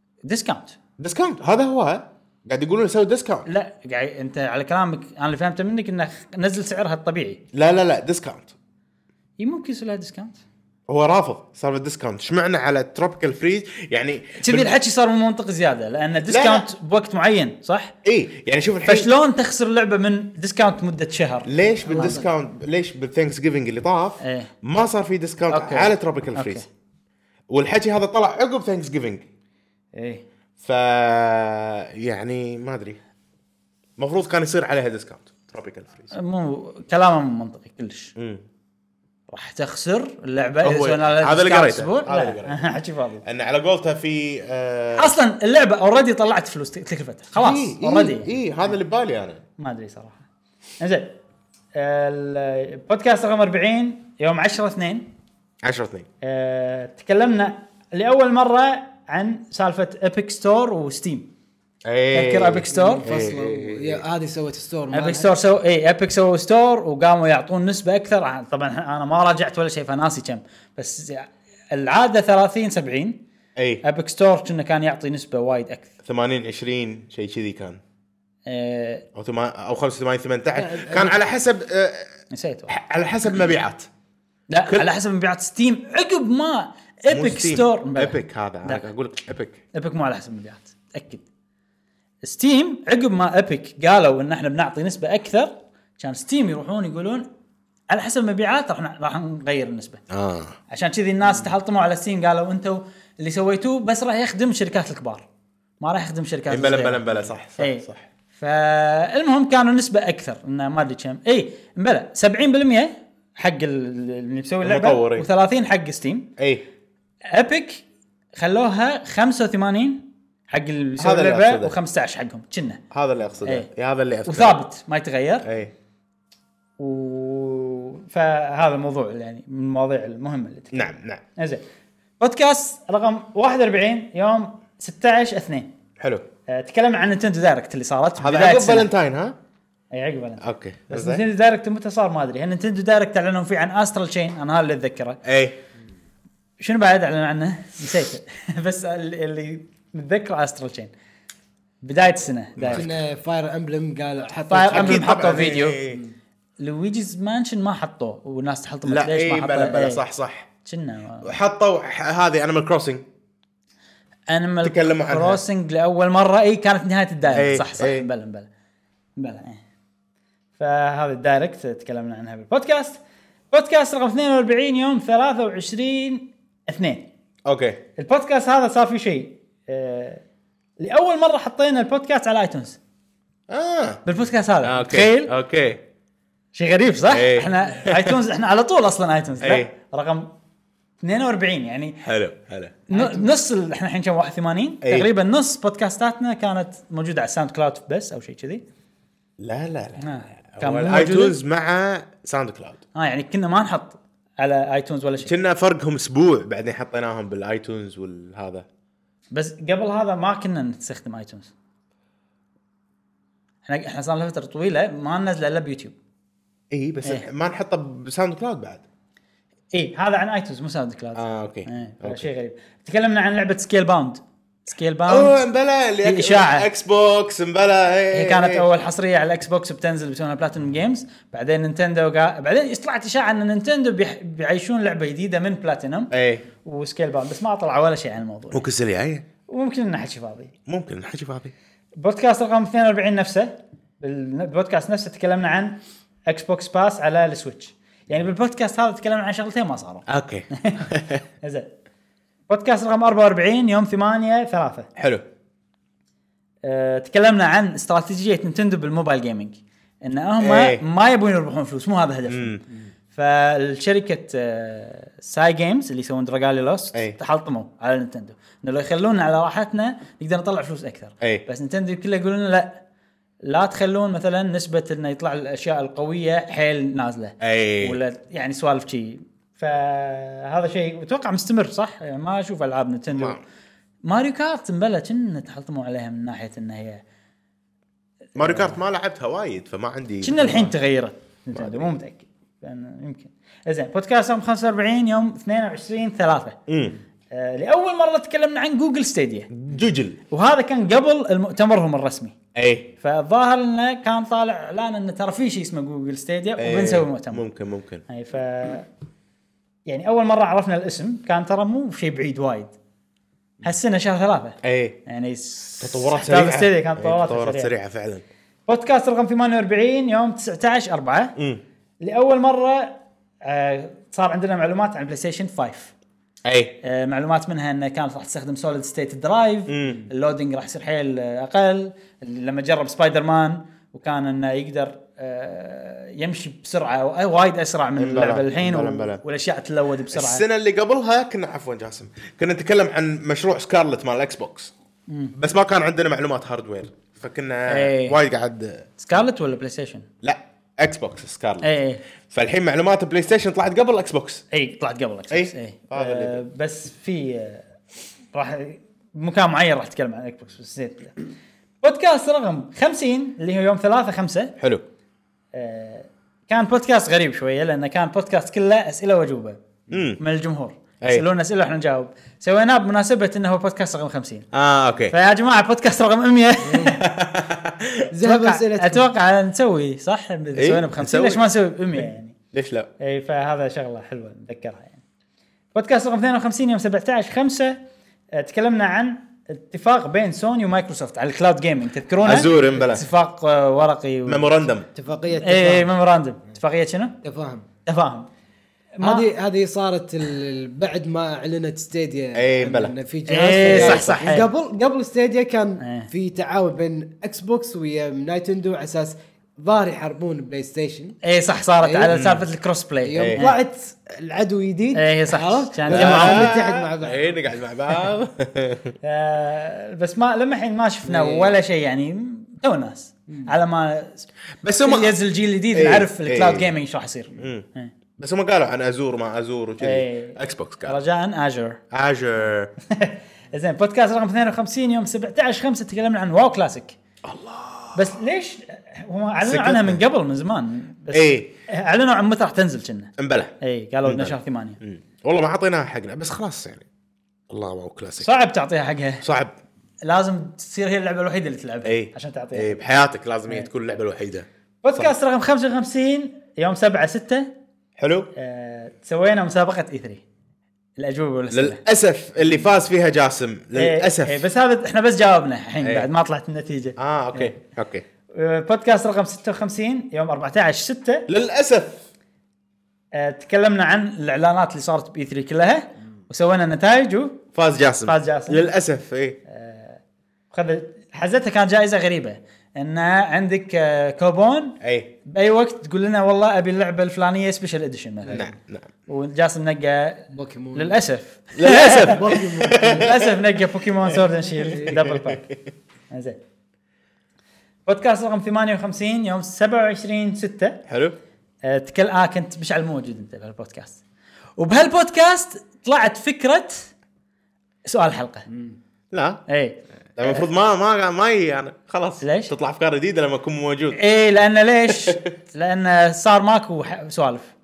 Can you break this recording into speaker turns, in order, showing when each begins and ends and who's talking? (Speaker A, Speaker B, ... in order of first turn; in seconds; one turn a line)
Speaker A: 0.2-0.8
Speaker B: 1.0-3.5
Speaker A: 3.5-7.4
Speaker B: 7.5-8.5
Speaker A: 9.4-10.4
Speaker B: 10.9-14.7
Speaker A: 14.4-17.9
Speaker B: 16.3-16.7
Speaker B: 18.1-19.1
Speaker A: 18.9-22.2
Speaker B: 21.4-26.6
Speaker C: 21.9-22.2
Speaker A: 24.2-24.5
Speaker A: 25.5-26.6
Speaker B: 27.5-29.2
Speaker A: 29.9-30.2
Speaker B: 30.6-33.0
Speaker B: 34.0-36.1
Speaker A: 36.1-38.1
Speaker B: 38.1-38.4
Speaker A: 39.3-43.2
Speaker B: 40.6-42.7
Speaker B: 43.2-45.1
Speaker A: 45.0-48.4
Speaker B: 47.3-49.4
Speaker A: 49.6-50.2
Speaker A: 50.8-51.1
Speaker A: 51.7-55.1
Speaker B: 55.6-56.0
Speaker A: 56.2-61.3
Speaker B: 61.8-64.0
Speaker A: 62.1-63.1
Speaker C: 62.7-65.3
Speaker A: 64.9-73.2
Speaker B: 73.5-73.8
Speaker A: 73.8-75.9
Speaker B: 76.0-77.8
Speaker A: 78.5-79.0
Speaker B: 79.1-82.1
Speaker C: 80.6-81.1
Speaker A: 82.3-82.7
Speaker B: 82.7-83.9
Speaker A: 84.5-88.8
Speaker B: 87.1-89.6
Speaker A: 89.7-91.2
Speaker A: 92.2-97.2
Speaker A: 97.9-100.0
Speaker B: 100.1-100.5
Speaker A: 100.7-105.2
Speaker A: 105.8-116.3
Speaker B: 106.5-108.0
Speaker B: 114.6-115.3
Speaker B: 116.4-116.6
Speaker A: 117.3-117.8
Speaker A: 118.3-122.8
Speaker B: 121.0-121.8
Speaker B: 122.9-124.6
Speaker A: 124.3-125.5
Speaker B: 125.4-125.7
Speaker A: 126.8-130.8
Speaker B: 130.7-131.2
Speaker A: 131.4-131.6
Speaker A: 132.2-135.7
Speaker B: 136.0-136.2
Speaker A: 136.5-138.9
Speaker B: 138.2-139.3
Speaker A: 139.9-145.2
Speaker B: 140.4-141.2
Speaker B: 145.2-145.6
Speaker A: 146.6-150.9
Speaker A: 151.8-152.9
Speaker B: 152.6-152.9
Speaker C: 152.7-156.0
Speaker A: 154.5-155.8
Speaker B: 154.7-156.0
Speaker A: 156.6-160.0
Speaker B: 158.8-160.5
Speaker A: 160.6-161.3
Speaker B: 161.2-163.1
Speaker A: 164.3-168.5
Speaker B: 164.6-165.4
Speaker B: 167.3-168.1
Speaker A: 169.2-169.6
Speaker A: 170.6-173.0
Speaker A: 173.5-177.1
Speaker B: 177.4-177.8
Speaker A: 178.0-180.2
Speaker A: 180.8-182.8
Speaker B: 183.5-184.0
Speaker A: 184.1-185.3
Speaker B: 184.6-185.8
Speaker A: 186.5-190.3
Speaker B: 187.1-188.2
Speaker B: 189.4-189.7
Speaker A: 191.0-192.0
Speaker B: 192.0-193.2
Speaker A: 192.9-198.6
Speaker B: 194.8-195.1
Speaker B: 199.4-202.8
Speaker A: 200.0-201.4
Speaker A: 202.9-205.3
Speaker B: 205.2-208.7
Speaker A: 209.3-211.5
Speaker A: 213.6-215.9
Speaker B: 216.7-218.8
Speaker A: 219.7-225.4
Speaker B: 221.2-222.3
Speaker B: 225.1-228.7
Speaker A: 226.0-226.7
Speaker A: 228.1-236.1
Speaker B: 236.1-236.4
Speaker A: 236.6-238.7
Speaker B: 238.5-239.2
Speaker A: 239.5-240.5
Speaker B: 240.7-241.5
Speaker A: 242.0-250.9
Speaker B: 250.1-251.2
Speaker A: 251.4-251.7
Speaker A: 252.5-254.9
Speaker B: 254.9-255.2
Speaker A: 256.6-262.6
Speaker B: 260.4-260.8
Speaker B: 262.3-262.6
Speaker A: 263.1-272.8
Speaker A: 273.4-283.4
Speaker B: 277.4-278.0
Speaker B: 283.1-283.4
Speaker A: 284.0-287.0
Speaker B: 288.4-290.7
Speaker A: 288.4-288.8
Speaker A: 290.2-296.6
Speaker B: 291.6-291.9
Speaker B: 296.7-296.9
Speaker A: 297.3-299.5
Speaker B: 299.5-300.2
Speaker A: 300.3-302.4
Speaker B: 302.6-302.9
Speaker A: 303.0-307.4
Speaker B: 306.6-308.0
Speaker A: 308.1-308.9
Speaker A: 309.9-312.7
Speaker A: 313.6-317.7
Speaker B: 314.6-315.0
Speaker B: 315.8-318.2
Speaker A: 318.7-321.4
Speaker A: 322.0-325.9
Speaker B: 326.4-326.8
Speaker A: 326.8-340.4
Speaker B: 329.7-330.1
Speaker B: 338.0-339.2
Speaker B: 340.1-344.7
Speaker A: 345.1-345.4
Speaker B: 345.4-348.9
Speaker A: 347.7-348.2
Speaker A: 349.0-350.1
Speaker B: 350.2-351.7
Speaker A: 351.6-352.0
Speaker B: 352.3-354.4
Speaker A: 354.5-357.6
Speaker B: 355.3-356.4
Speaker A: 358.3-361.1
Speaker A: 361.8-364.5
Speaker B: 364.6-364.8
Speaker A: 365.5-369.6
Speaker B: 369.9-370.2
Speaker A: 370.2-374.5
Speaker B: 374.5-375.1
Speaker A: 375.1-377.0
Speaker C: 376.6-376.9
Speaker B: 376.9-378.1
Speaker C: 378.1-379.1
Speaker A: 378.2-382.4
Speaker B: 380.6-382.9
Speaker A: 383.0-385.0
Speaker A: 385.7-387.8
Speaker A: 388.3-394.4
Speaker B: 392.2-393.1
Speaker B: 394.3-394.9
Speaker C: 394.9-395.9
Speaker A: 395.4-397.2
Speaker C: 397.2-397.6
Speaker A: 397.9-398.3
Speaker A: 399.0-399.3
Speaker C: 399.0-411.2
Speaker B: 402.4-402.9
Speaker A: 403.3-404.5
Speaker B: 403.7-404.2
Speaker A: 405.8-406.1
Speaker A: 411.2-413.6
Speaker C: 411.8-412.1
Speaker B: 412.1-412.4
Speaker C: 413.0-417.4
Speaker B: 413.1-413.4
Speaker A: 414.9-416.6
Speaker B: 415.9-418.9
Speaker A: 419.0-424.3
Speaker C: 421.0-421.5
Speaker B: 424.6-425.1
Speaker A: 424.8-427.9
Speaker B: 425.7-426.7
Speaker B: 427.4-427.6
Speaker B: 428.2-431.0
Speaker A: 429.8-431.8
Speaker B: 431.9-432.7
Speaker A: 432.9-436.9
Speaker B: 437.2-438.2
Speaker A: 437.9-444.8
Speaker B: 439.4-440.0
Speaker B: 441.1-441.5
Speaker B: 443.2-443.5
Speaker B: 444.1-446.9
Speaker B: 447.5-448.3
Speaker A: 448.2-449.2
Speaker B: 449.2-449.5
Speaker A: 450.0-452.8
Speaker B: 451.9-455.1
Speaker A: 454.8-457.5
Speaker B: 458.0-458.3
Speaker A: 458.4-460.2
Speaker A: 461.0-461.8
Speaker B: 461.5-464.4
Speaker A: 463.8-467.6
Speaker B: 465.8-466.1
Speaker B: 467.0-468.1
Speaker A: 468.3-471.3
Speaker B: 471.3-472.0
Speaker A: 473.1-477.4
Speaker B: 477.5-479.4
Speaker A: 478.0-478.6
Speaker A: 479.5-480.0
Speaker A: 480.5-488.5
Speaker B: 484.8-485.1
Speaker B: 488.3-488.9
Speaker A: 489.1-495.5
Speaker C: 490.3-491.0
Speaker B: 491.6-493.4
Speaker C: 491.8-493.2
Speaker B: 494.1-495.6
Speaker C: 494.7-495.0
Speaker A: 496.1-496.4
Speaker A: 497.9-500.8
Speaker B: 500.9-501.2
Speaker A: 501.6-504.0
Speaker A: 504.6-506.9
Speaker A: 507.9-508.5
Speaker B: 509.1-509.4
Speaker A: 509.5-510.4
Speaker B: 510.1-514.0
Speaker A: 512.2-512.5
Speaker A: 513.9-517.5
Speaker B: 514.9-515.2